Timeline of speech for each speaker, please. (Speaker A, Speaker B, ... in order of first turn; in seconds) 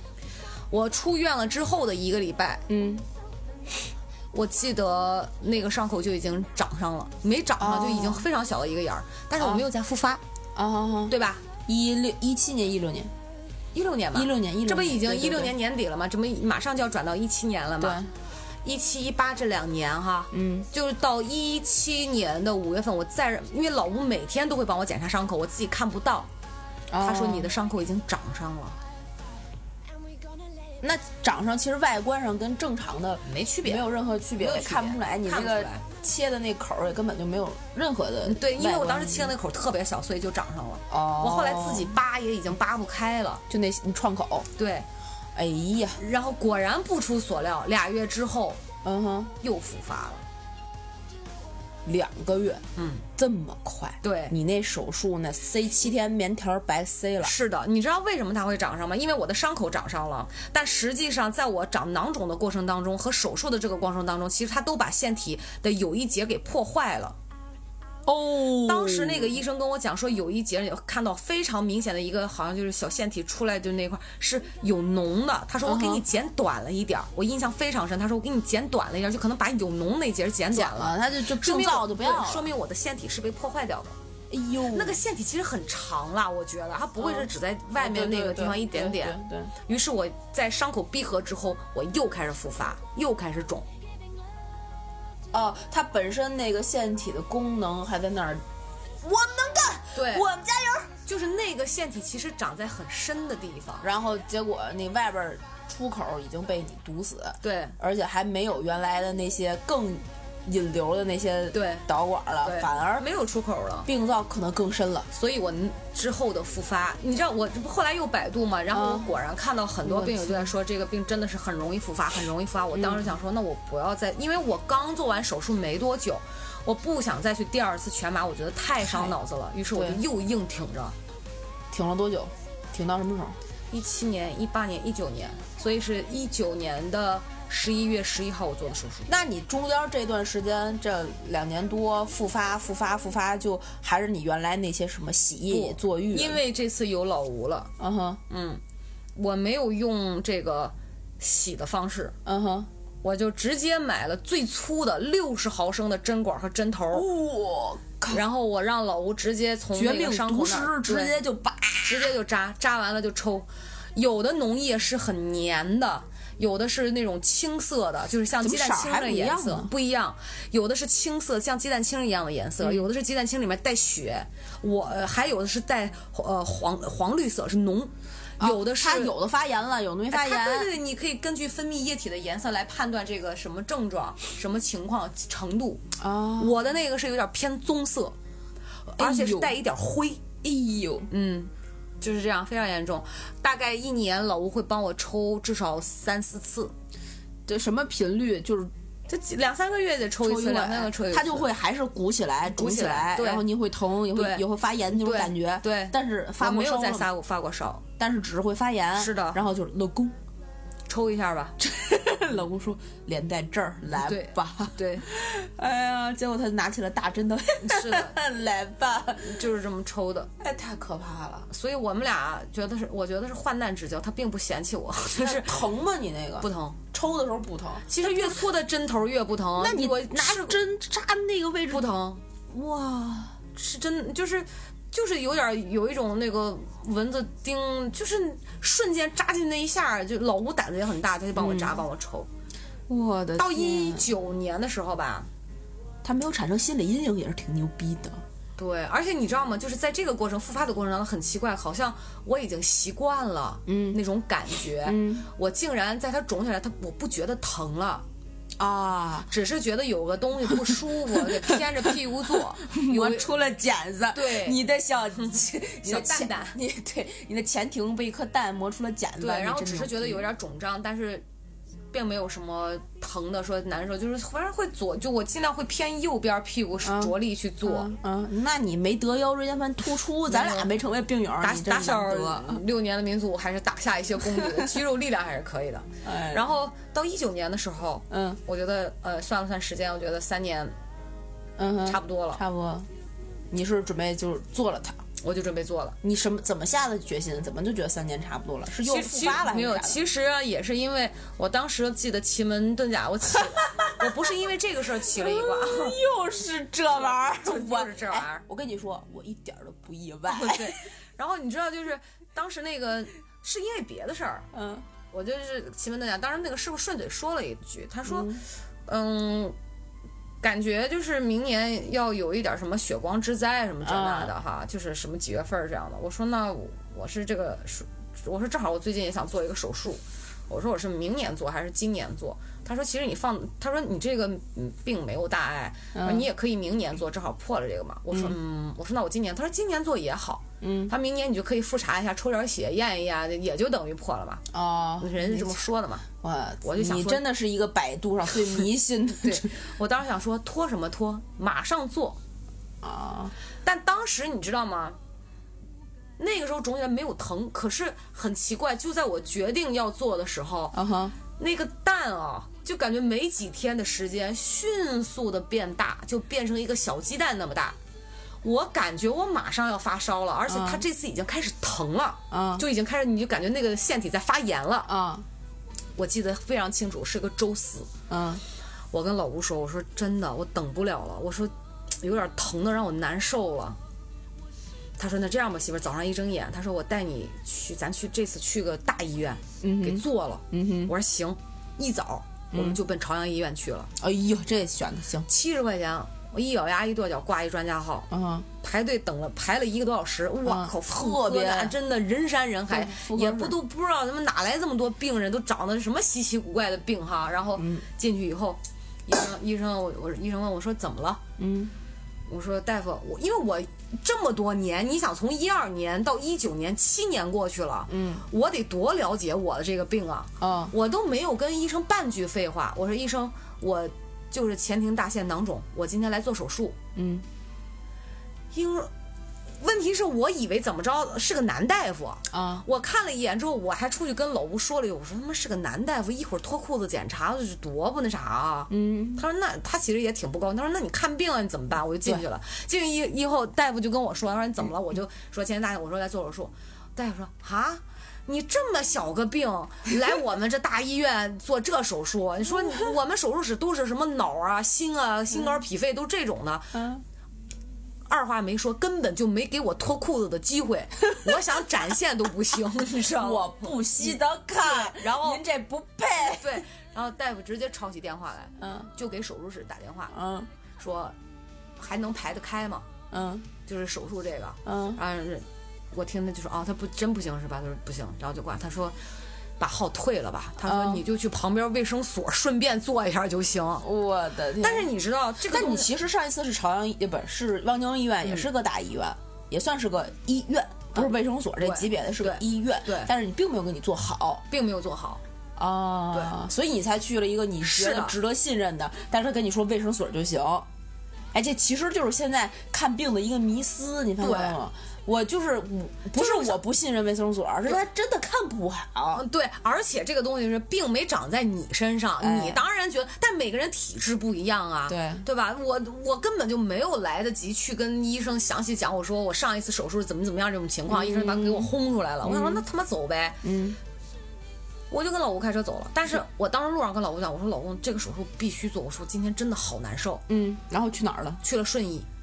Speaker A: 0.7-2.6, 4.3-10.2, 11.1-11.4, 13.7-18.0, 18.6-26.3, 27.0-28.8, 33.3-35.8, 38.2-43.4, 44.6-44.9, 46.0-48.6, 49.4-50.2, 52.8-53.0, 54.0-54.4, 57.2-67.2, 68.5-84.0, 84.7-93.7, 99.9-100.3, 101.1-103.9, 107.4-107.8, 111.5-111.9, 112.4-113.9, 115.1-131.0, 133.7-139.1, 145.5-147.7, 148.3-148.6, 149.2-152.2, 153.0-157.1, 158.1-161.2, 161.9-179.1, 180.1-185.8, 186.4-188.2, 188.9-190.2, 191.1-196.7, 199.1-201.5, 202.5-203.5, 204.1-204.4, 204.9-207.8, 209.0-209.4, 210.9-211.6, 214.0-215.1, 217.7-218.2, 219.2-220.3, 221.5-225.6, 226.4-226.8, 227.9-230.6, 231.7-232.2, 233.5-242.3, 243.4-245.3, 248.6-258.1, 259.3-263.3, 264.1-264.6, 265.2-266.6, 269.2-271.2, 271.9-277.9, 280.3-280.7, 281.4-290.8, 291.9-292.4, 295.2-296.0, 298.8-306.0, 307.0-308.4, 310.3-314.5, 315.1-319.6, 320.4-344.4, 345.0-346.1, 346.6-347.2, 349.2-352.2, 353.6-355.0, 356.2-360.8, 361.3-367.8, 368.4-374.9, 376.0-377.9, 378.9-383.8, 385.0-393.9, 395.3-398.1, 398.6-411.2, 412.3-426.8, 428.5-428.9, 429.6-456.8, 458.1-465.4, 466.2-470.1, 470.8-471.2, 471.8-472.9, 473.6-479.0, 479.6-483.9, 484.6-485.9, 490.9-493.1, 494.5-495.2, 497.6-498.2, 504.2-504.6, 506.1-506.6, 509.1-523.4, 524.9-530.2, 531.4-532.1
Speaker B: 2.7-3.0, 7.6-8.2, 9.4-9.7, 10.6-13.1, 14.1-15.6, 17.8-18.1, 20.3-20.7, 26.9-27.5, 30.8-39.3, 40.9-42.0, 43.5-44.5, 45.4-46.0, 48.8-49.3, 51.9-52.6, 53.2-57.3, 68.1-69.4, 75.6-76.0, 80.5-82.5, 84.3-85.0, 87.0-89.5, 95.3-98.5, 99.0-100.9, 103.8-113.1, 113.9-115.1, 118.7-119.1, 119.8-120.5, 122.7-123.2, 128.8-129.1, 129.7-130.0, 131.7-133.4, 139.1-146.4, 147.8-148.2, 152.2-152.7, 156.9-158.2, 159.7-162.2, 168.4-169.7, 178.4-180.7, 186.0-186.5, 189.0-189.6, 190.4-191.1, 197.5-198.7, 200.2-207.1, 208.0-210.2, 211.6-219.4, 220.4-221.5, 225.1-228.3, 229.6-231.9, 232.5-233.4, 241.4-241.8, 242.9-244.1, 246.0-248.2, 253.7-254.0, 254.8-255.3, 258.6-259.3, 261.1-270.2, 276.8-282.6, 284.3-284.6, 286.0-286.4, 288.1-288.4, 291.6-292.9, 293.5-295.0, 296.0-300.0, 303.6-304.0, 305.1-310.9, 314.5-314.9, 318.1-318.4, 323.8-324.3, 335.9-336.3, 340.6-340.9, 344.5-345.6, 346.2-349.6, 352.8-353.3, 360.7-361.2, 370.5-370.8, 372.3-372.7, 374.9-375.2, 378.1-378.4, 389.6-390.9, 392.5-392.8, 394.0-395.3, 398.1-398.5, 400.4-401.8, 402.7-403.6, 407.6-407.9, 411.4-411.7, 417.9-418.3, 420.4-420.7, 427.0-427.2, 432.3-432.6, 438.7-439.2, 456.7-457.0, 463.1-466.6, 468.6-468.9, 470.1-470.5, 473.1-473.5, 474.6-475.0, 480.6-481.0, 483.8-484.9, 485.5-494.4, 495.6-500.7, 501.3-509.2, 512.2-512.6, 514.9-515.3, 520.9-521.7, 522.2-522.6, 523.4-523.8, 530.3-531.4